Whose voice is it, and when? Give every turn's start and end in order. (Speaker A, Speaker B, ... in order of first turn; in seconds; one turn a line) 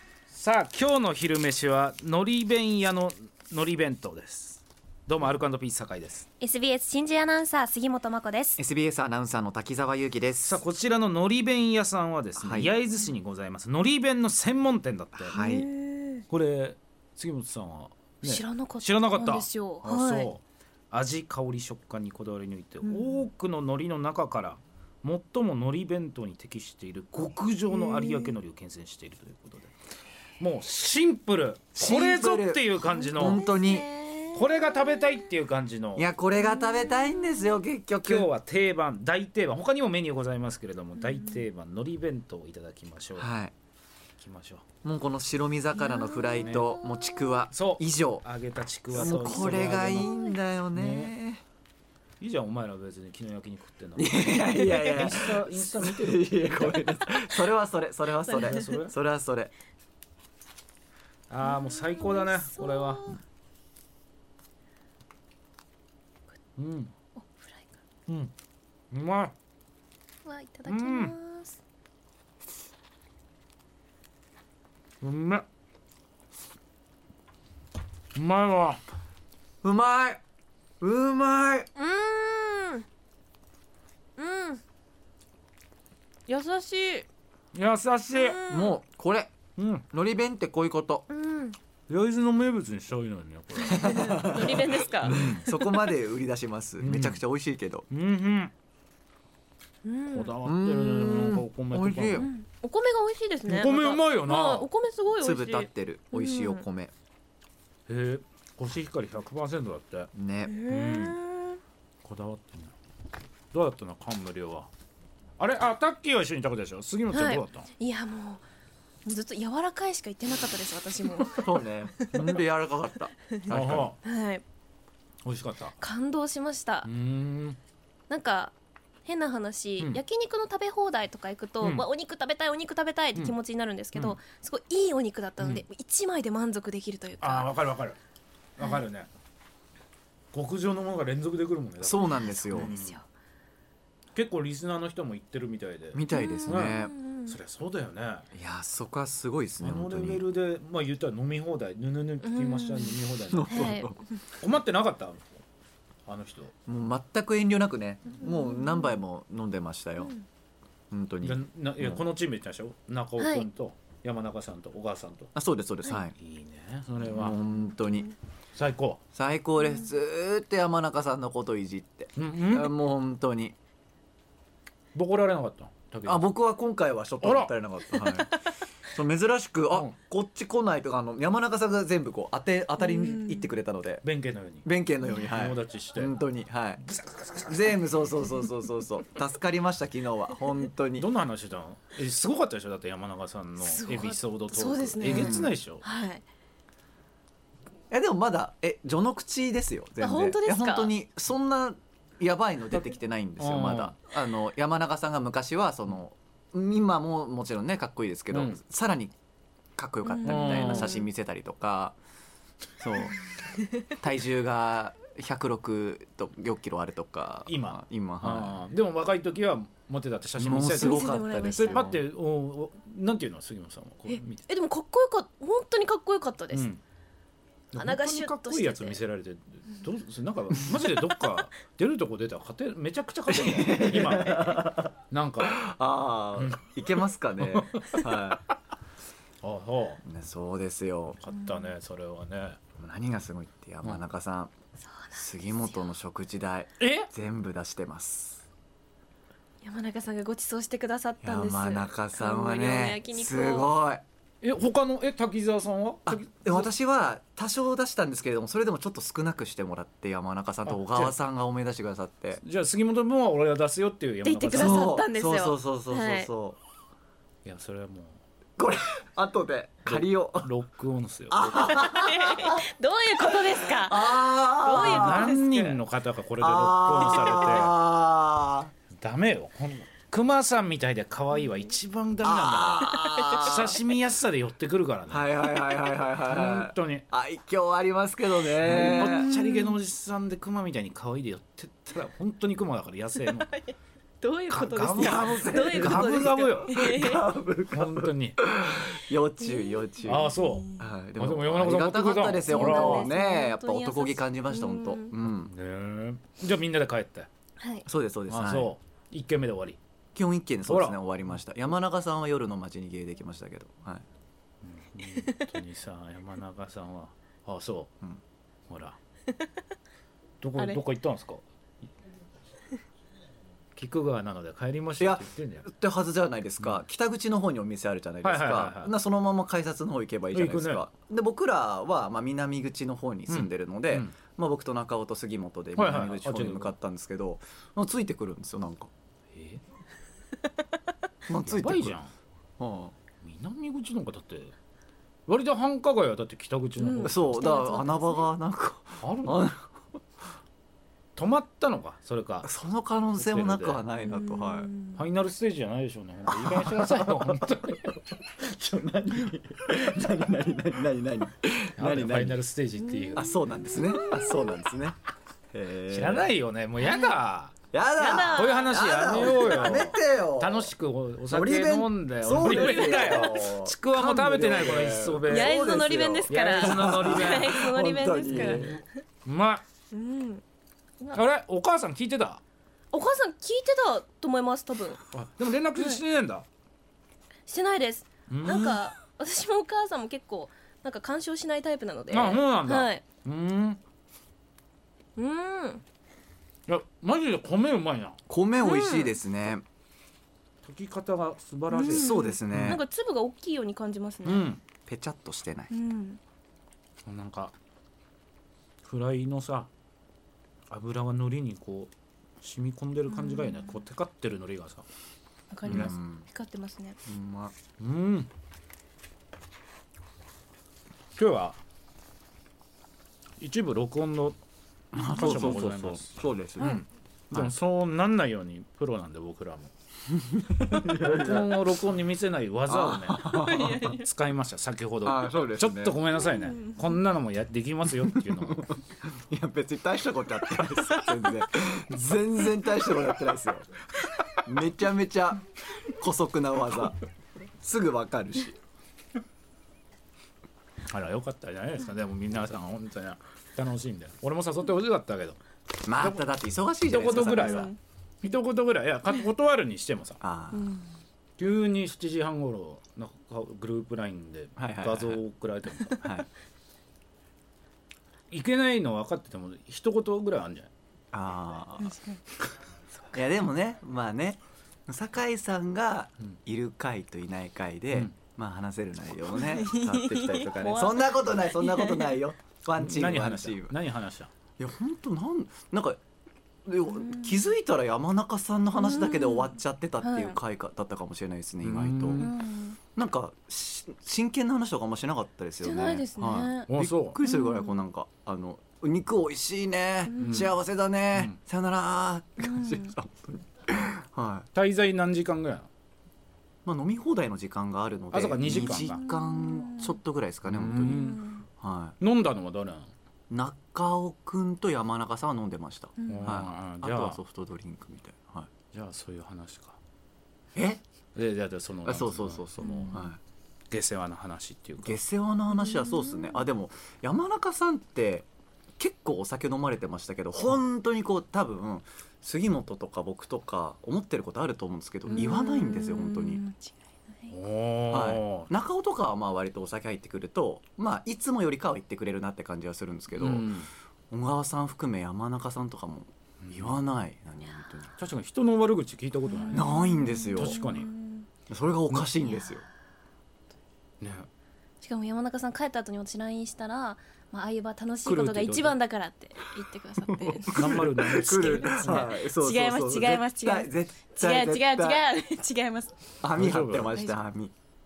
Speaker A: 0.3-6.3
Speaker B: 6.4-8.6
Speaker C: 8.6-10.6
Speaker A: 10.4-15.3
Speaker C: 12.4-12.7
Speaker C: 15.2-15.7
Speaker B: 15.3-16.2
Speaker A: 16.3-29.7
Speaker B: 18.2-20.3
Speaker B: 22.8-23.2
Speaker B: 27.7-28.3
Speaker A: 30.4-33.5
Speaker C: 31.8-33.9
Speaker B: 32.9-35.1
Speaker A: 34.3-36.1
Speaker C: 36.0-38.3
Speaker B: 36.5-37.5
Speaker A: 38.0-43.3
Speaker B: 41.1-41.4
Speaker C: 43.2-43.5
Speaker A: 44.2-44.6
Speaker C: 44.8-48.2
Speaker B: 45.8-47.4
Speaker A: 46.4-46.7
Speaker A: 47.5-50.1
Speaker C: 48.9-51.4
Speaker B: 49.8-50.3
Speaker A: 50.7-51.1
Speaker A: 52.2-57.1
Speaker C: 54.0-59.5
Speaker B: 54.5-55.1
Speaker A: 58.3-58.9
Speaker B: 58.3-58.8
Speaker A: 61.3-63.2
Speaker B: 61.4-63.2
Speaker A: 66.6-66.9
Speaker B: 67.1-67.8
Speaker A: 68.1-68.3
Speaker A: 68.9-69.3
Speaker B: 70.2-71.6
Speaker A: 70.7-71.1
Speaker A: 75.0-75.4
Speaker A: 78.1-78.8
Speaker C: 79.6-80.2
Speaker C: 80.8-81.7
Speaker B: 81.8-82.8
Speaker B: 84.2-84.6
Speaker B: 86.3-87.0
Speaker A: 87.5-88.4
Speaker B: 88.1-88.8
Speaker C: 88.5-89.3
Speaker A: 89.6-89.8
Speaker C: 89.9-91.0
Speaker B: 91.1-91.6
Speaker A: 91.9-94.3
Speaker B: 93.6-95.5
Speaker C: 93.6-97.9
Speaker A: 95.0-95.5
Speaker A: 96.8-97.2
Speaker A: 97.9-98.5
Speaker B: 99.8-100.3
Speaker A: 100.1-102.3
Speaker C: 100.4-102.3
Speaker B: 102.1-106.6
Speaker A: 103.5-104.7
Speaker C: 105.2-106.9
Speaker A: 107.9-110.1
Speaker C: 110.1-110.6
Speaker B: 110.5-111.6
Speaker A: 110.7-111.2
Speaker A: 112.0-112.7
Speaker A: 113.5-114.7
Speaker A: 115.4-117.7
Speaker B: 117.1-118.4
Speaker B: 119.0-122.4
Speaker C: 121.2-123.9
Speaker A: 123.5-124.0
Speaker B: 124.0-124.4
Speaker A: 125.2-125.7
Speaker B: 125.8-126.9
Speaker A: 126.8-127.6
Speaker B: 128.1-128.5
Speaker B: 129.0-137.5
Speaker A: 131.6-131.8
Speaker A: 135.4-135.6
Speaker A: 137.2-138.0
Speaker A: 138.6-139.1
Speaker A: 140.3-143.0
Speaker C: 141.8-142.7
Speaker B: 142.1-143.0
Speaker A: 144.1-148.3
Speaker C: 145.9-146.9
Speaker B: 146.1-147.3
Speaker C: 148.3-150.2
Speaker A: 149.6-153.8
Speaker B: 152.2-154.0
Speaker C: 153.3-154.0
Speaker A: 154.4-155.3
Speaker A: 156.1-156.5
Speaker C: 156.7-160.1
Speaker B: 158.2-159.0
Speaker C: 160.9-162.0
Speaker A: 161.2-165.3
Speaker B: 163.2-163.5
Speaker C: 165.3-166.2
Speaker A: 166.2-167.3
Speaker C: 167.0-168.1
Speaker A: 168.5-169.0
Speaker C: 169.1-173.6
Speaker A: 172.2-172.7
Speaker A: 174.9-176.3
Speaker C: 176.0-184.0
Speaker A: 177.2-177.5
Speaker B: 177.9-178.4
Speaker B: 182.8-183.5
Speaker A: 184.0-184.7
Speaker C: 184.6-186.8
Speaker A: 185.2-186.2
Speaker A: 186.8-187.8
Speaker C: 187.5-191.1
Speaker A: 191.0-195.8
Speaker B: 193.6-196.2
Speaker C: 195.0-195.5
Speaker C: 197.9-209.1
Speaker B: 200.0-200.9
Speaker A: 203.4-204.0
Speaker A: 208.3-208.6
Speaker C: 209.8-212.0
Speaker B: 210.0-211.0
Speaker A: 210.2-210.9
Speaker C: 212.8-213.2
Speaker C: 213.8-218.6
Speaker A: 217.5-224.4
Speaker C: 220.4-222.0
Speaker B: 220.8-221.9
Speaker B: 224.1-226.7
Speaker A: 226.5-226.8
Speaker A: 227.7-235.6
Speaker B: 227.7-229.0
Speaker C: 233.3-238.4
Speaker A: 236.4-236.7
Speaker A: 237.4-238.2
Speaker A: 239.4-240.0
Speaker C: 240.0-241.2
Speaker A: 241.2-242.6
Speaker C: 242.8-244.5
Speaker C: 245.1-248.4
Speaker A: 246.8-247.1
Speaker B: 249.6-253.7
Speaker C: 251.2-254.0
Speaker A: 254.4-256.7
Speaker C: 256.1-262.4
Speaker A: 260.7-261.1
Speaker A: 262.4-264.9
Speaker B: 264.2-266.3
Speaker C: 264.5-266.6
Speaker A: 267.4-268.2
Speaker C: 268.6-270.5
Speaker A: 269.9-271.7
Speaker C: 271.3-272.6
Speaker B: 271.5-275.4
Speaker C: 273.2-275.8
Speaker A: 274.7-277.8
Speaker C: 276.4-278.7
Speaker B: 277.1-277.6
Speaker A: 279.0-285.3
Speaker C: 282.2-283.8
Speaker B: 282.9-283.3
Speaker C: 285.1-289.3
Speaker A: 286.2-287.1
Speaker A: 288.6-293.5
Speaker B: 288.7-289.8
Speaker B: 293.3-297.3
Speaker A: 294.5-296.7
Speaker C: 294.9-305.5
Speaker A: 297.7-298.4
Speaker B: 299.4-300.9
Speaker A: 300.0-303.1
Speaker B: 302.4-305.1
Speaker A: 305.3-307.3
Speaker B: 307.6-307.9
Speaker C: 307.9-308.7
Speaker A: 308.3-309.8
Speaker C: 310.1-314.0
Speaker A: 310.7-311.0
Speaker A: 314.6-317.9
Speaker A: 318.7-319.0
Speaker A: 320.4-321.4
Speaker A: 323.7-325.6
Speaker C: 325.0-338.9
Speaker A: 328.2-328.9
Speaker A: 330.3-330.8
Speaker A: 333.3-334.1
Speaker A: 335.8-336.7
Speaker A: 339.3-339.6
Speaker C: 341.3-342.0
Speaker A: 341.4-342.1
Speaker C: 342.6-342.9
Speaker A: 343.2-344.5
Speaker A: 345.3-347.2
Speaker B: 346.8-348.3
Speaker C: 347.0-349.8
Speaker A: 349.0-349.4
Speaker A: 351.1-352.5
Speaker C: 352.4-354.7
Speaker A: 353.2-353.8
Speaker B: 354.0-355.0
Speaker A: 354.9-358.0
Speaker C: 356.3-362.4
Speaker A: 361.8-363.3
Speaker B: 362.8-364.6
Speaker C: 363.1-365.0
Speaker C: 365.5-366.3
Speaker A: 365.9-367.6
Speaker B: 366.8-367.1
Speaker C: 367.7-370.7
Speaker B: 368.0-368.7
Speaker A: 368.3-375.6
Speaker C: 371.3-378.8
Speaker B: 372.4-373.4
Speaker B: 375.2-379.0
Speaker A: 376.3-377.7
Speaker A: 378.3-379.6
Speaker B: 379.9-380.4
Speaker A: 381.1-382.4
Speaker B: 382.9-385.0
Speaker A: 385.1-386.4
Speaker B: 385.7-386.0
Speaker B: 387.4-393.0
Speaker A: 388.3-388.8
Speaker A: 392.1-393.8
Speaker B: 395.1-395.8
Speaker A: 396.7-398.2
Speaker C: 398.3-399.6
Speaker B: 398.6-399.1
Speaker A: 400.6-402.8
Speaker B: 401.7-404.5
Speaker C: 401.9-402.8
Speaker A: 404.2-404.6
Speaker C: 404.9-405.7
Speaker B: 405.7-406.2
Speaker A: 407.1-407.5
Speaker A: 408.8-409.7
Speaker A: 410.7-414.8
Speaker B: 413.1-413.8
Speaker B: 415.5-417.0
Speaker A: 415.6-415.9
Speaker C: 415.6-416.2
Speaker C: 417.1-417.5
Speaker A: 417.8-418.3
Speaker A: 421.2-421.6
Speaker A: 423.4-424.4
Speaker C: 424.9-427.5
Speaker A: 425.1-429.7
Speaker C: 430.2-431.6
Speaker A: 430.8-438.7
Speaker C: 432.7-433.8
Speaker B: 433.3-434.0
Speaker C: 435.0-436.0
Speaker B: 436.3-436.9
Speaker C: 438.0-443.7
Speaker C: 444.4-447.0
Speaker C: 447.6-448.6
Speaker A: 450.9-455.4
Speaker C: 455.8-457.7
Speaker A: 456.9-460.2
Speaker B: 457.1-457.8
Speaker C: 460.2-460.7
Speaker B: 460.5-460.9
Speaker A: 461.4-466.0
Speaker C: 464.6-465.2
Speaker C: 466.0-466.2
Speaker A: 468.3-470.7
Speaker C: 471.1-471.9
Speaker B: 471.8-472.2
Speaker C: 473.1-483.8
Speaker B: 479.3-482.2
Speaker A: 482.8-484.3
Speaker C: 484.6-486.0
Speaker C: 486.6-492.3
Speaker B: 487.0-487.4
Speaker B: 488.7-490.4
Speaker A: 491.6-492.3
Speaker B: 492.2-492.8
Speaker C: 492.9-504.5
Speaker B: 495.6-496.7
Speaker A: 495.8-496.0
Speaker A: 496.7-497.2
Speaker B: 497.2-497.8
Speaker B: 500.1-500.5
Speaker A: 500.2-500.5
Speaker B: 502.4-502.9
Speaker A: 504.5-505.7
Speaker C: 506.6-512.0
Speaker A: 508.1-509.0
Speaker B: 508.7-510.0
Speaker A: 510.4-511.3
Speaker B: 510.7-511.4
Speaker A: 512.0-512.9
Speaker C: 513.3-518.5
Speaker B: 516.0-516.3
Speaker A: 516.1-517.2
Speaker A: 518.7-519.8
Speaker C: 520.5-520.8
Speaker A: 521.1-522.8
Speaker C: 521.8-523.2
Speaker B: 522.6-523.1
Speaker A: 523.7-525.0
Speaker C: 524.8-536.4
Speaker B: 525.5-526.4
Speaker B: 535.1-537.3
Speaker A: 537.3-538.5
Speaker C: 537.9-543.5
Speaker A: 543.1-543.7
Speaker C: 544.1-548.0
Speaker A: 546.4-546.8
Speaker A: 548.0-549.8
Speaker B: 549.3-551.3
Speaker C: 549.5-550.6
Speaker A: 550.4-550.9
Speaker C: 551.5-552.6
Speaker B: 552.2-552.5
Speaker A: 554.0-554.3
Speaker B: 554.8-566.1
Speaker A: 558.0-558.8
Speaker C: 560.0-565.0
Speaker A: 560.5-562.1
Speaker C: 566.2-567.5
Speaker A: 566.3-566.9